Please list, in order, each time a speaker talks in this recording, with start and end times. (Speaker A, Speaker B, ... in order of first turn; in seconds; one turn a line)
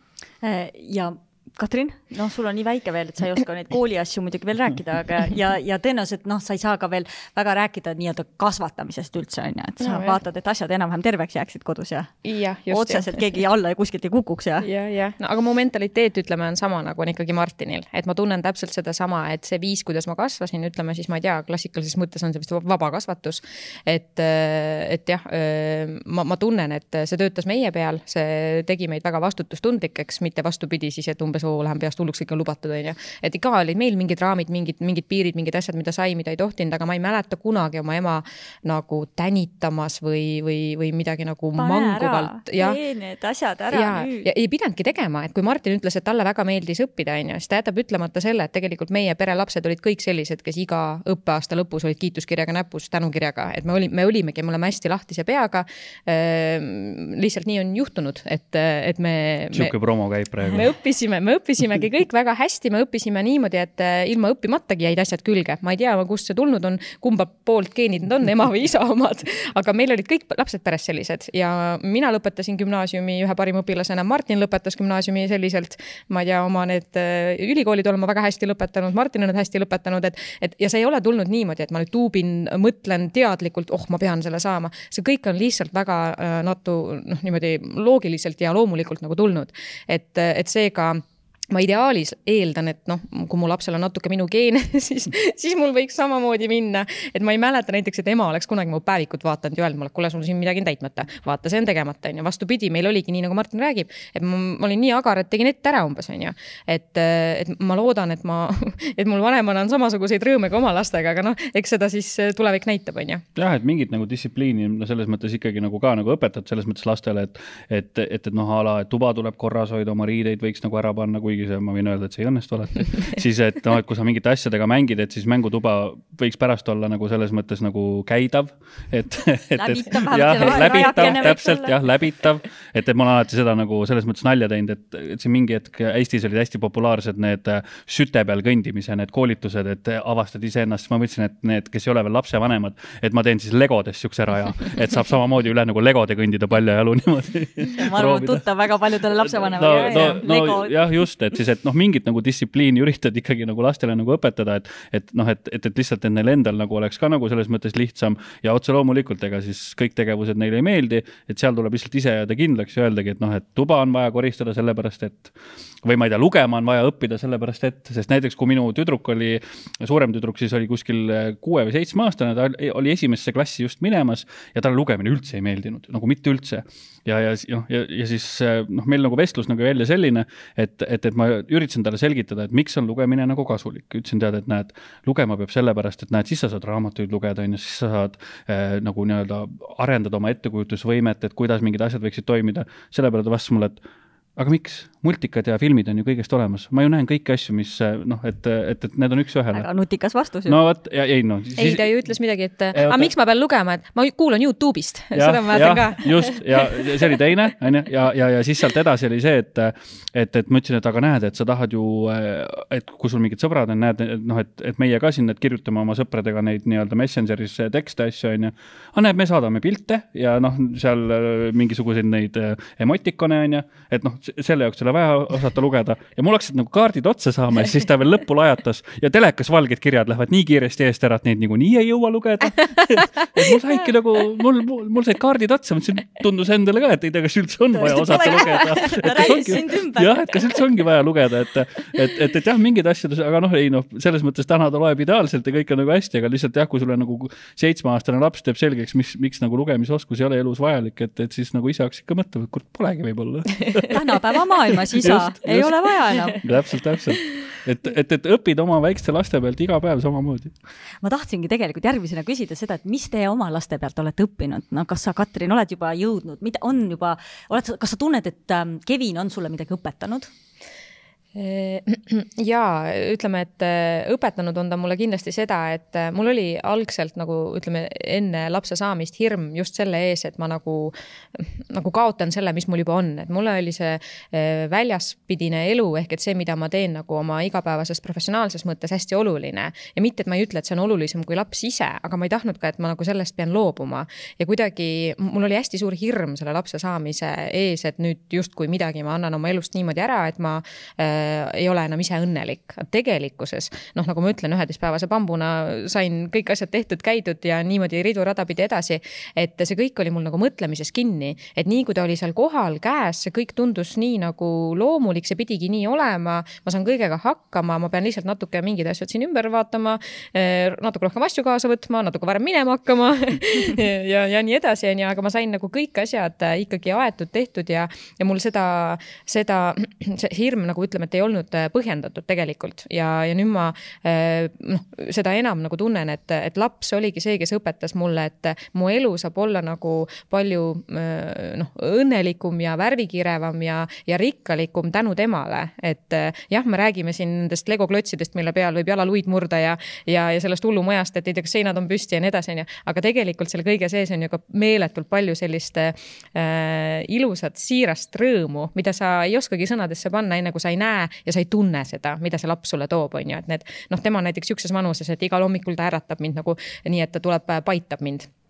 Speaker A: 0.4-14.7
Speaker B: 9.8-10.2
Speaker B: 12.2-13.2
Speaker B: 14.6-42.8
Speaker A: 41.6-44.3
Speaker B: 43.7-59.7
Speaker C: 59.5-60.7
Speaker B: 60.5-113.2
Speaker C: 113.3-148.4
Speaker A: 129.6-131.8
Speaker A: 147.8-151.0
Speaker C: 149.3-193.8
Speaker C: 194.4-199.7
Speaker A: 199.5-200.6
Speaker C: 200.4-201.9
Speaker B: 201.6-206.7
Speaker C: 202.7-203.1
Speaker C: 205.1-254.0
Speaker A: 237.7-240.7
Speaker A: 253.9-256.4
Speaker C: 254.9-260.5
Speaker A: 261.0-270.3
Speaker B: 271.3-368.3